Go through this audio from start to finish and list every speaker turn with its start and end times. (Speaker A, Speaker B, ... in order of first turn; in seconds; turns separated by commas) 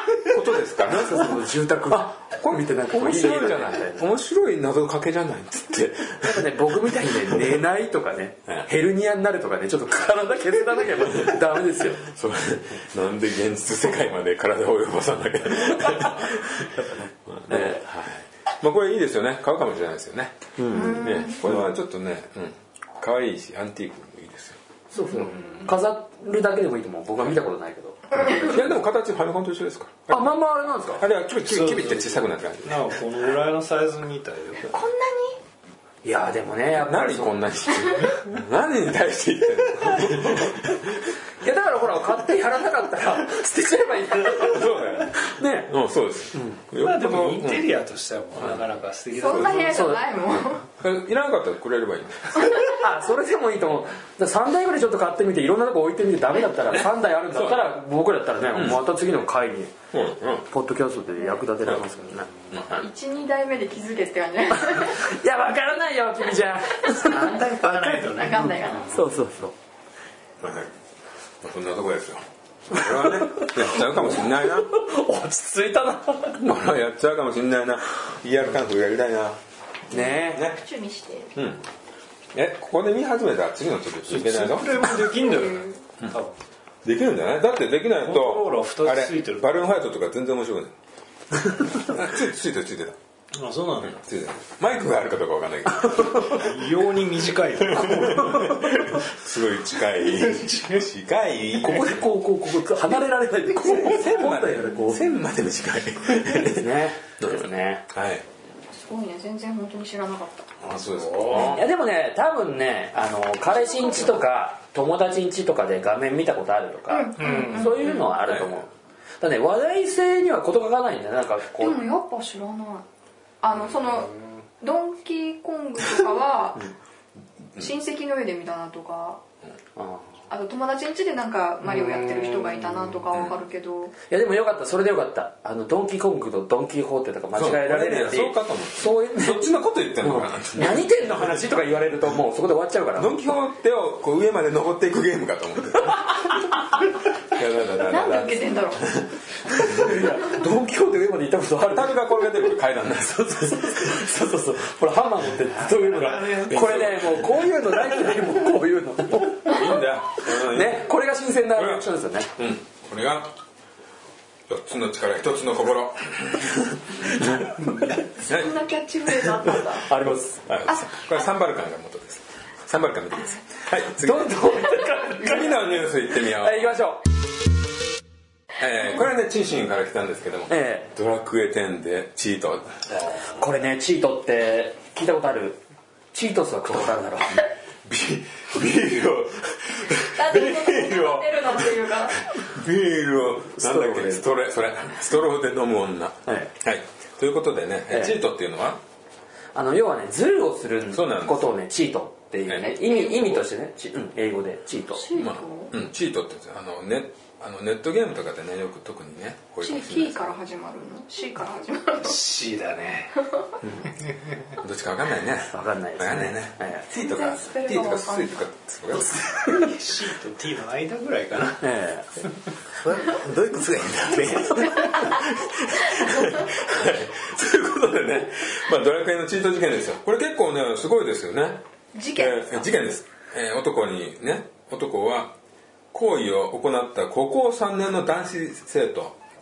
Speaker A: 0.1-6.5, Speaker B: 0.8-4.0, Speaker B: 6.2-12.0, Speaker A: 7.0-7.5, Speaker A: 12.0-16.7, Speaker B: 15.7-17.8, Speaker A: 17.3-20.4, Speaker B: 20.6-21.7, Speaker C: 20.7-21.4, Speaker A: 20.9-24.6, Speaker B: 24.9-28.4, Speaker C: 24.9-25.4, Speaker D: 25.3-25.7, Speaker C: 28.1-28.5, Speaker A: 28.4-33.0, Speaker B: 30.1-31.0, Speaker D: 31.4-34.7, Speaker C: 34.6-35.4, Speaker B: 36.0-37.4, Speaker A: 36.7-41.0, Speaker B: 41.4-45.7, Speaker A: 44.4-47.7, Speaker B: 46.3-46.6, Speaker D: 46.7-50.0, Speaker C: 49.1-50.7, Speaker B: 49.7-50.0, Speaker A: 50.8-52.5, Speaker C: 52.4-52.7, Speaker B: 52.7-59.7, Speaker A: 56.7-57.7, Speaker A: 58.5-59.2, Speaker A: 59.9-60.5, Speaker B: 60.5-62.3, Speaker A: 62.5-62.8, Speaker C: 62.7-65.1, Speaker B: 64.6-69.5, Speaker D: 66.9-69.0, Speaker C: 67.8-69.0, Speaker A: 70.4-70.7, Speaker A: 71.4-74.7, Speaker B: 72.7-76.4, Speaker A: 76.4-79.4, Speaker B: 79.9-80.4, Speaker C: 79.9-81.3, Speaker A: 80.3-80.6, Speaker A: 81.3-81.6, Speaker A: 82.3-84.8, Speaker D: 84.1-86.4, Speaker C: 84.9-85.8, Speaker A: 86.8-90.7, Speaker D: 88.0-89.6, Speaker A: 91.7-93.0, Speaker D: 93.3-94.0, Speaker A: 93.8-96.5, Speaker D: 96.3-98.9, Speaker A: 97.7-102.0, Speaker D: 100.1-100.9, Speaker B: 101.6-105.1, Speaker A: 103.6-108.2, Speaker B: 106.3-107.9, Speaker C: 108.7-110.5, Speaker A: 110.6-111.7, Speaker D: 110.7-111.6, Speaker B: 111.4-118.7, Speaker C: 113.5-114.2, Speaker C: 116.9-118.1, Speaker D: 117.2-117.8, Speaker A: 118.2-118.5, Speaker B: 119.2-121.8, Speaker C: 121.6-122.8, Speaker C: 123.4-126.7, Speaker C: 127.6-129.2, Speaker B: 129.8-130.0, Speaker C: 130.3-133.9, Speaker B: 131.6-132.9, Speaker B: 134.1-143.3, Speaker A: 137.3-141.3, Speaker A: 143.0-146.2, Speaker A: 147.3-149.0, Speaker C: 147.7-148.9, Speaker B: 149.5-152.3, Speaker A: 149.6-150.0, Speaker A: 151.7-154.0, Speaker B: 153.0-162.3, Speaker D: 155.7-157.0, Speaker A: 156.2-157.9, Speaker A: 159.4-160.9, Speaker A: 161.5-163.3, Speaker A: 164.5-167.6, Speaker B: 167.3-167.9, Speaker C: 168.2-169.9, Speaker A: 168.2-168.6, Speaker A: 169.3-169.6, Speaker B: 169.5-170.4, Speaker A: 170.4-176.8, Speaker C: 170.7-171.2, Speaker B: 173.9-177.0, Speaker A: 178.6-182.8, Speaker B: 180.5-180.9, Speaker B: 183.3-185.6, Speaker B: 186.1-187.5, Speaker A: 187.8-191.7, Speaker C: 190.0-192.3, Speaker A: 192.4-198.8, Speaker B: 193.6-194.3, Speaker B: 196.2-196.5, Speaker B: 197.9-198.2, Speaker B: 199.5-205.1, Speaker A: 200.9-201.6, Speaker C: 202.6-203.4, Speaker C: 204.9-205.7, Speaker A: 205.1-210.4, Speaker C: 209.6-212.2, Speaker D: 212.0-213.1, Speaker D: 213.9-214.5, Speaker A: 214.6-219.3, Speaker B: 215.5-216.9, Speaker C: 216.9-218.5, Speaker D: 219.3-221.7, Speaker B: 221.6-222.2, Speaker B: 222.8-225.1, Speaker A: 223.0-231.6, Speaker C: 224.8-225.2, Speaker C: 231.9-232.7, Speaker A: 232.2-235.3, Speaker A: 235.9-239.2